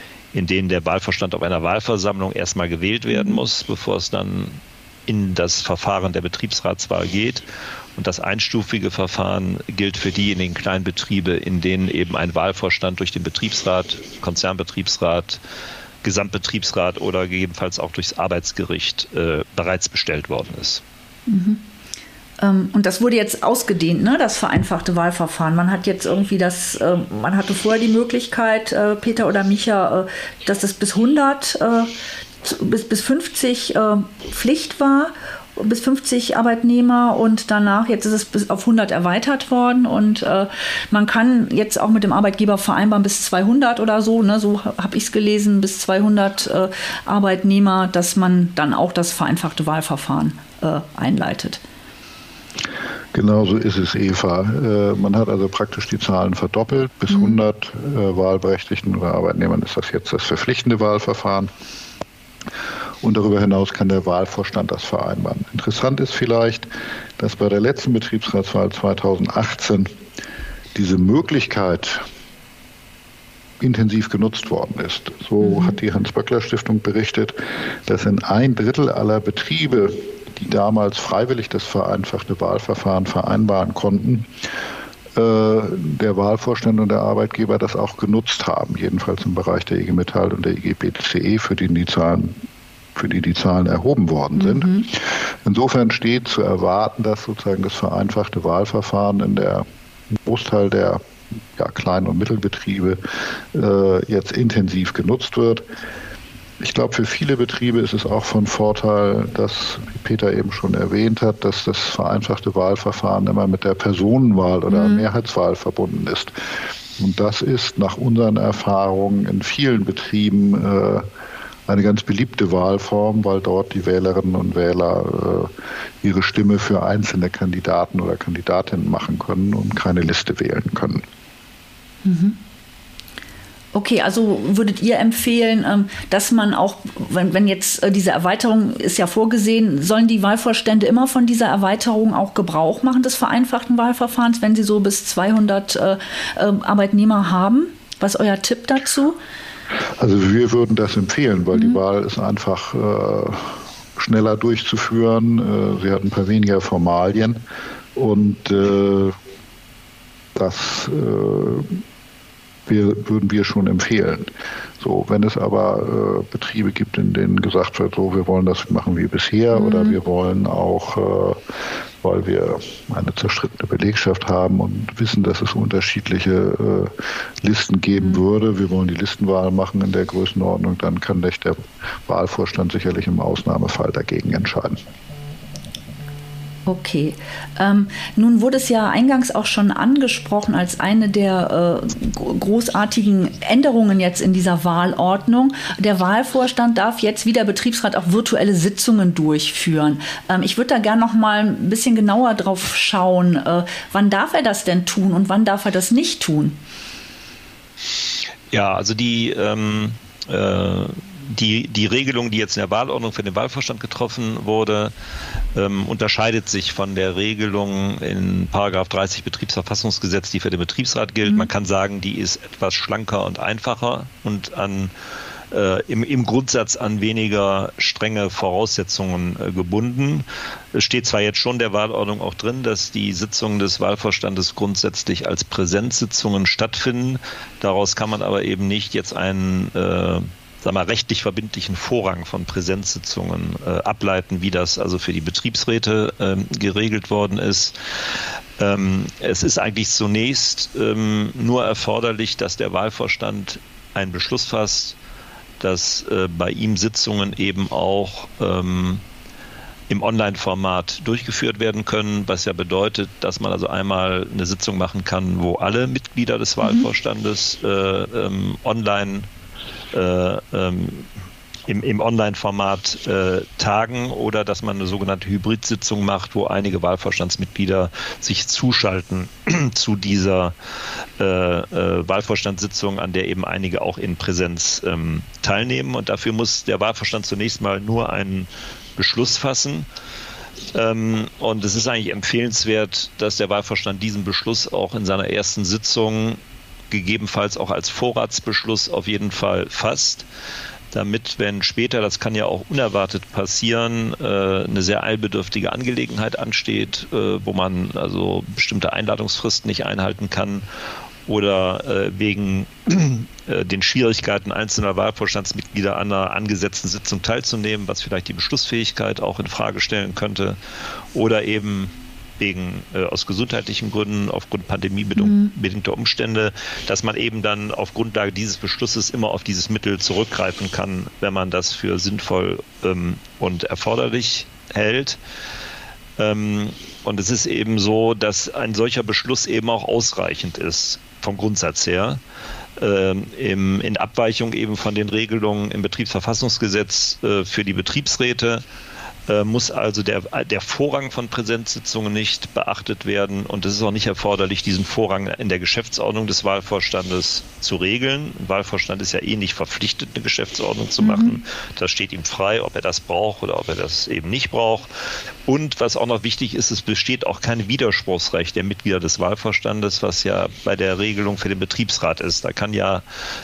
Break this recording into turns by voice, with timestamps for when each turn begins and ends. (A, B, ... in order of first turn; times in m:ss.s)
0:00.3-0:07.4 A
0:03.1-0:03.4 B
0:08.0-0:15.4 A
0:16.0-0:20.8 A
0:21.3-0:21.6 B
0:22.4-0:31.9 B
0:32.4-0:51.6 B
0:53.1-1:01.5 C
0:57.1-0:57.4 B
1:03.0-1:09.9 C
1:10.7-1:12.0 C
1:13.6-1:24.5 C
1:15.4-1:15.8 B
1:25.1-1:32.4 C
1:32.9-1:41.0 C
1:34.4-1:34.9 B
1:41.5-1:45.6 C
1:46.6-2:01.1 C
1:54.7-1:55.1 B
2:01.7-2:11.0 C
2:12.0-2:12.4 B
2:13.7-2:29.2 B
2:30.0-2:37.4 C
2:37.9-2:39.1 C
2:40.3-2:41.8 C
2:42.6-2:44.3 C
2:44.8-2:51.4 C
2:49.6-2:50.0 B
2:52.0-3:04.8 C
3:06.6-3:26.6 B
3:28.5-3:34.9 A
3:35.5-3:44.9 A
3:45.5-4:15.0 A
4:15.6-4:19.0 A
4:19.9-4:29.3 A
4:29.9-4:31.1 A
4:31.7-4:40.6 A
4:41.2-4:49.9 A
4:50.7-4:56.4 A
4:56.9-5:00.3 A
5:00.9-5:10.6 A
5:11.2-5:20.6 A
5:21.1-5:35.2 A
5:25.2-5:25.5 B
5:36.2-5:42.2 A
5:42.8-5:48.6 A
5:49.3-6:04.9 A
6:01.0-6:01.4 B
6:05.4-6:13.0 A